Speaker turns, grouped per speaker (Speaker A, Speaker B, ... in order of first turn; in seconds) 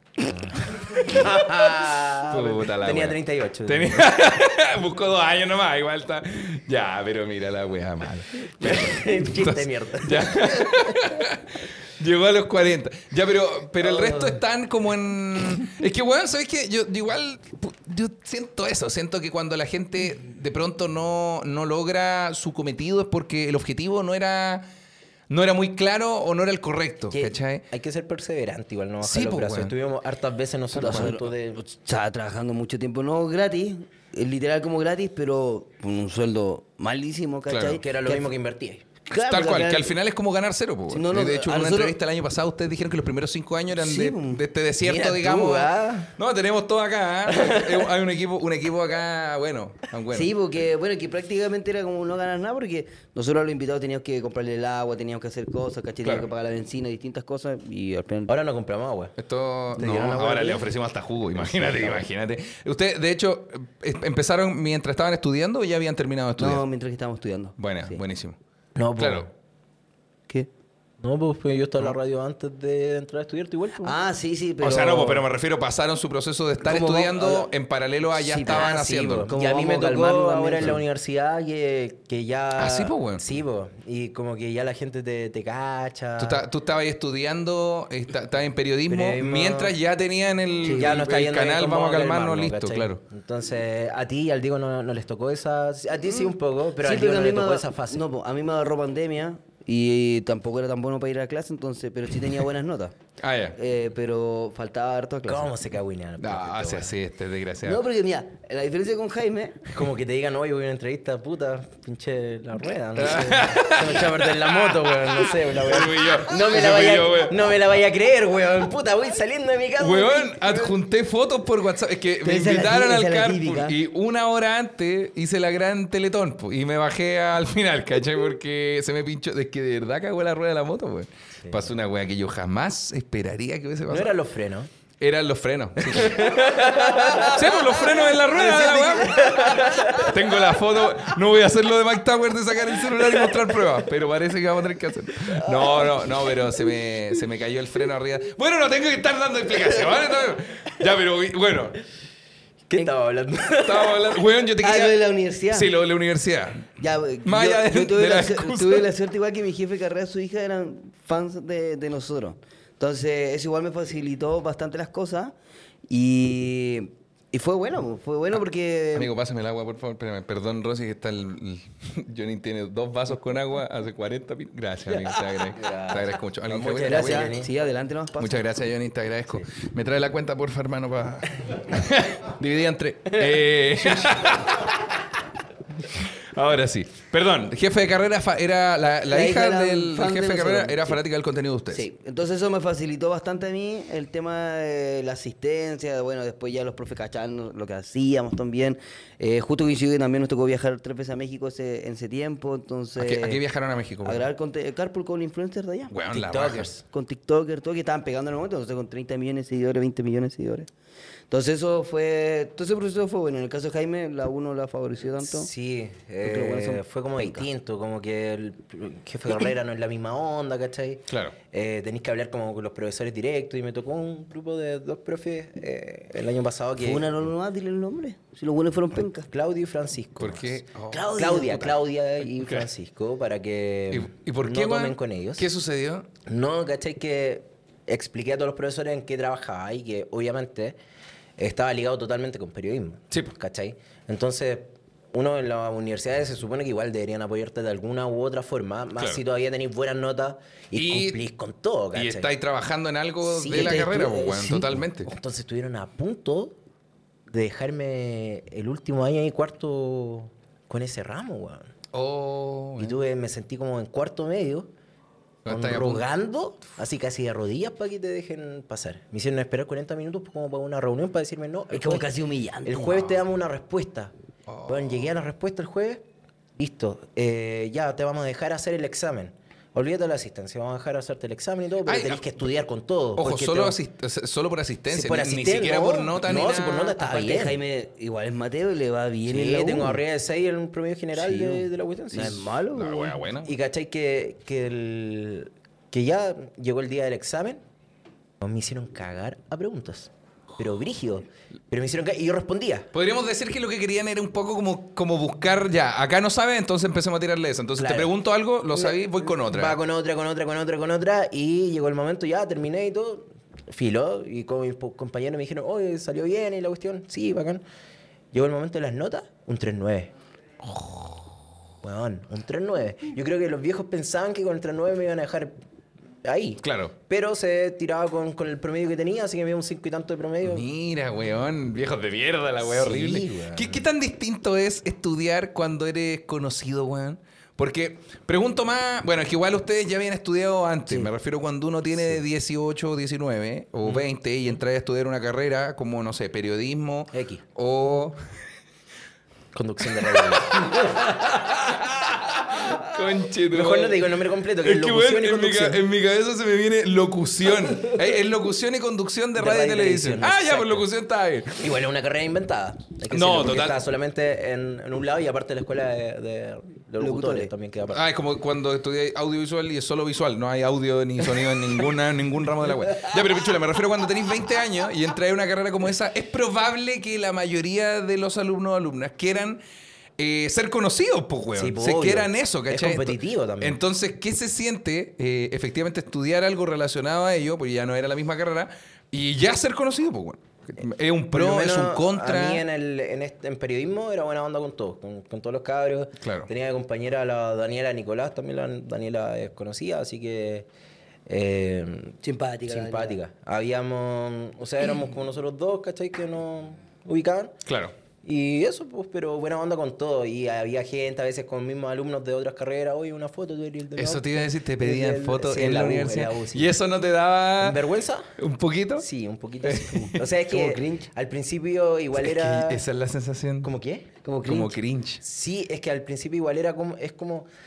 Speaker A: 0.3-4.1, 8.6-10.9, 27.1-31.6, 37.8-38.8, 44.9-46.1, 58.3-59.1, 59.8-60.6, 61.4-62.0, 68.8-69.3, 71.0-73.9, 78.5-86.4, 88.9-89.7, 90.7-98.0, 105.2-106.9, 109.7-120.7, 133.9-134.7, 135.8-137.8, 138.3-140.1, 152.7-154.2, 175.6-177.5, 206.1-206.8, 215.2-227.2, 229.3-235.5, 236.2-240.8, 241.4-252.3, 253.2-254.1, 255.0-256.6, 257.3-261.7, 262.8-264.7, 265.5-272.1, 272.6-274.1, 274.7-283.8, 284.9-287.6, 289.2-292.5, 293.4-297.6, 298.4-302.9, 307.8-308.1, 308.7-317.6, 318.3-320.1, 321.8-325.5, 326.2-330.7, 332.6-333.8, 347.1-347.4, 349.5-351.1, 353.5-355.8, 359.4-360.9, 361.6-368.0, 381.6-383.8, 391.3-400.7, 401.3-402.1, 402.7-407.5, 408.2-414.3, 414.8-416.7, 417.6-418.3, 419.0-422.8, 423.6-424.1, 425.2-427.5
Speaker B: 2.3-24.6, 25.3-27.6, 29.0-29.7, 37.5-37.8, 39.1-50.3, 59.2-66.6, 67.6-68.4, 69.0-69.3, 74.6-79.3, 82.6-83.2, 86.2-93.0, 103.2-103.5, 106.2-107.8, 113.0-117.4, 119.8-134.1, 135.0-136.6, 137.2-151.8, 153.6-155.0, 155.5-156.7, 157.2-158.9, 168.9-177.3, 178.2-184.9, 185.9-191.8, 203.0-204.3, 205.9-206.7, 221.1-221.3, 230.2-231.1, 232.4-232.7, 233.9-236.1, 250.7-251.2, 251.9-255.1, 261.9-263.0, 265.4-266.0, 274.5-275.0, 281.9-282.2, 283.2-286.9, 292.7-293.5, 302.9-309.8, 320.6-321.2, 326.6-326.9, 330.4-348.2, 350.2-361.6, 363.1-363.8, 367.9-379.6, 380.2-392.6, 396.2-396.5, 407.6-407.9, 413.9-417.8, 418.4-419.1, 419.6-420.2, 422.2-423.7, 424.4-425.2
Speaker C: 13.8-14.3, 30.7-38.3, 39.1-39.9, 40.9-42.0, 43.7-45.4, 50.1-58.3, 66.4-68.0, 73.8-75.2, 76.6-77.5, 78.1-78.7, 79.3-80.8, 90.6-90.9, 96.8-102.9, 103.5-105.5, 107.6-109.6, 122.2-123.7, 136.7-140.1, 154.6-155.7, 156.8-165.3, 165.9-169.1, 174.9-175.2, 176.8-178.4, 189.1-191.0, 191.7-203.4, 204.0-205.9, 206.9-210.7, 211.3-215.5, 216.2-217.5, 226.8-229.3, 230.9-231.8, 253.5-254.8, 271.7-273.2, 287.0-290.0, 291.1-293.2, 350.6-351.6, 367.0-367.5, 402.2-403.2, 419.9-421.0, 424.2-424.8